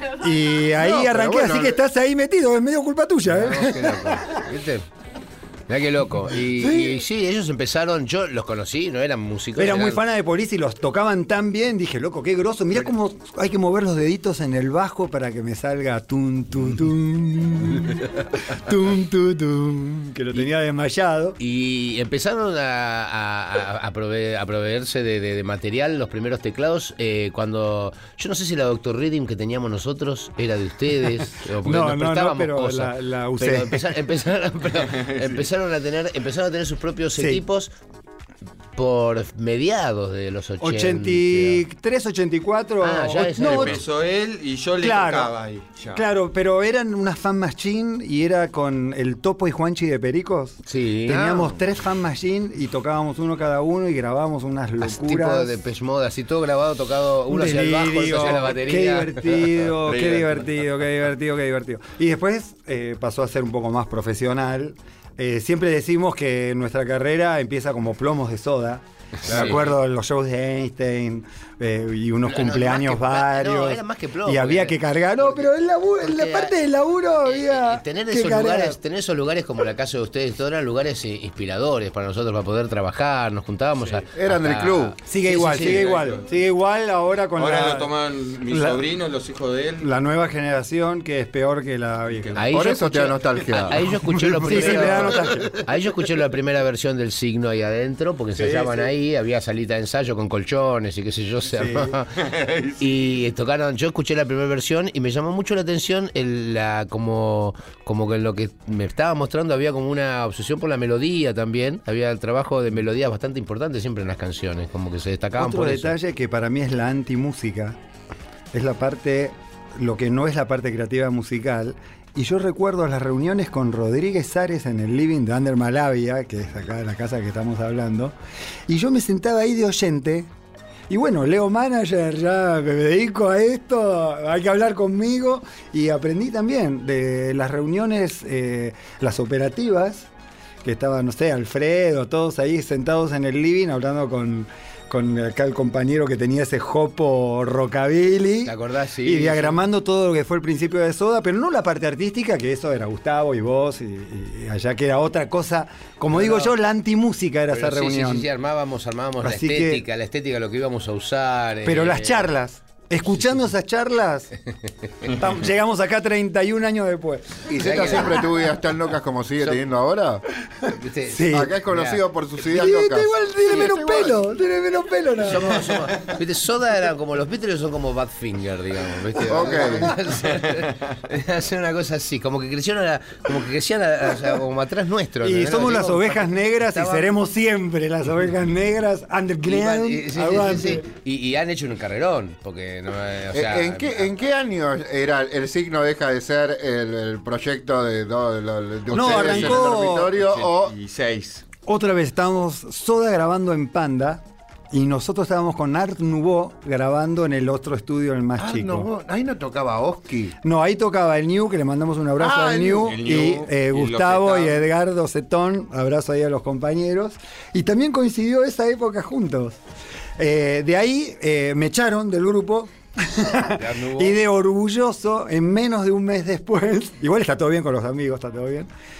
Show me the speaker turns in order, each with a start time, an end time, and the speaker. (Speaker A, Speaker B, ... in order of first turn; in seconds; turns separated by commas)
Speaker A: 0.2-4.4, Speaker B: 0.8-1.8, Speaker C: 3.3-4.8, Speaker C: 5.7-10.0, Speaker A: 6.5-7.0, Speaker A: 9.5-21.4, Speaker C: 21.4-37.7, Speaker A: 31.5-34.0, Speaker D: 34.9-35.4, Speaker A: 37.1-37.4, Speaker C: 38.8-41.6, Speaker A: 40.6-43.8, Speaker C: 42.8-43.8, Speaker D: 43.3-46.0, Speaker A: 44.8-45.3, Speaker A: 45.9-55.5, Speaker C: 50.6-51.6, Speaker C: 54.8-59.4, Speaker A: 57.3-78.8, Speaker D: 59.8-60.5, Speaker C: 69.3-69.7, Speaker C: 72.2-76.5, Speaker C: 77.2-86.0, Speaker B: 84.1-85.0, Speaker A: 85.0-87.9, Speaker D: 85.4-86.4, Speaker D: 87.3-89.9, Speaker A: 88.5-88.8, Speaker A: 89.8-92.4, Speaker C: 92.3-102.1, Speaker B: 92.5-93.8, Speaker A: 94.1-95.5, Speaker A: 98.3-98.7, Speaker A: 101.5-101.9, Speaker D: 102.2-102.8, Speaker C: 102.8-115.9, Speaker A: 115.4-117.8, Speaker A: 118.5-128.1, Speaker A: 128.7-130.3, Speaker A: 130.9-140.1, Speaker A: 140.6-158.3, Speaker C: 148.4-149.6, Speaker C: 156.1-156.5, Speaker C: 157.5-162.3, Speaker A: 159.2-159.8, Speaker A: 161.6-164.3, Speaker A: 165.1-168.1, Speaker B: 167.5-170.2, Speaker C: 167.6-168.3, Speaker C: 170.7-172.0, Speaker A: 171.1-171.5, Speaker B: 171.3-174.2, Speaker A: 172.5-176.0, Speaker C: 175.2-187.1, Speaker B: 179.3-179.9, Speaker D: 180.2-180.7, Speaker A: 185.2-190.9, Speaker C: 189.4-194.1, Speaker B: 193.3-200.7, Speaker A: 198.9-200.1, Speaker D: 198.9-201.4, Speaker A: 201.7-208.9, Speaker B: 208.4-210.3, Speaker A: 210.4-219.6, Speaker B: 212.2-213.1, Speaker D: 212.8-214.7, Speaker A: 220.2-228.7, Speaker C: 223.5-224.2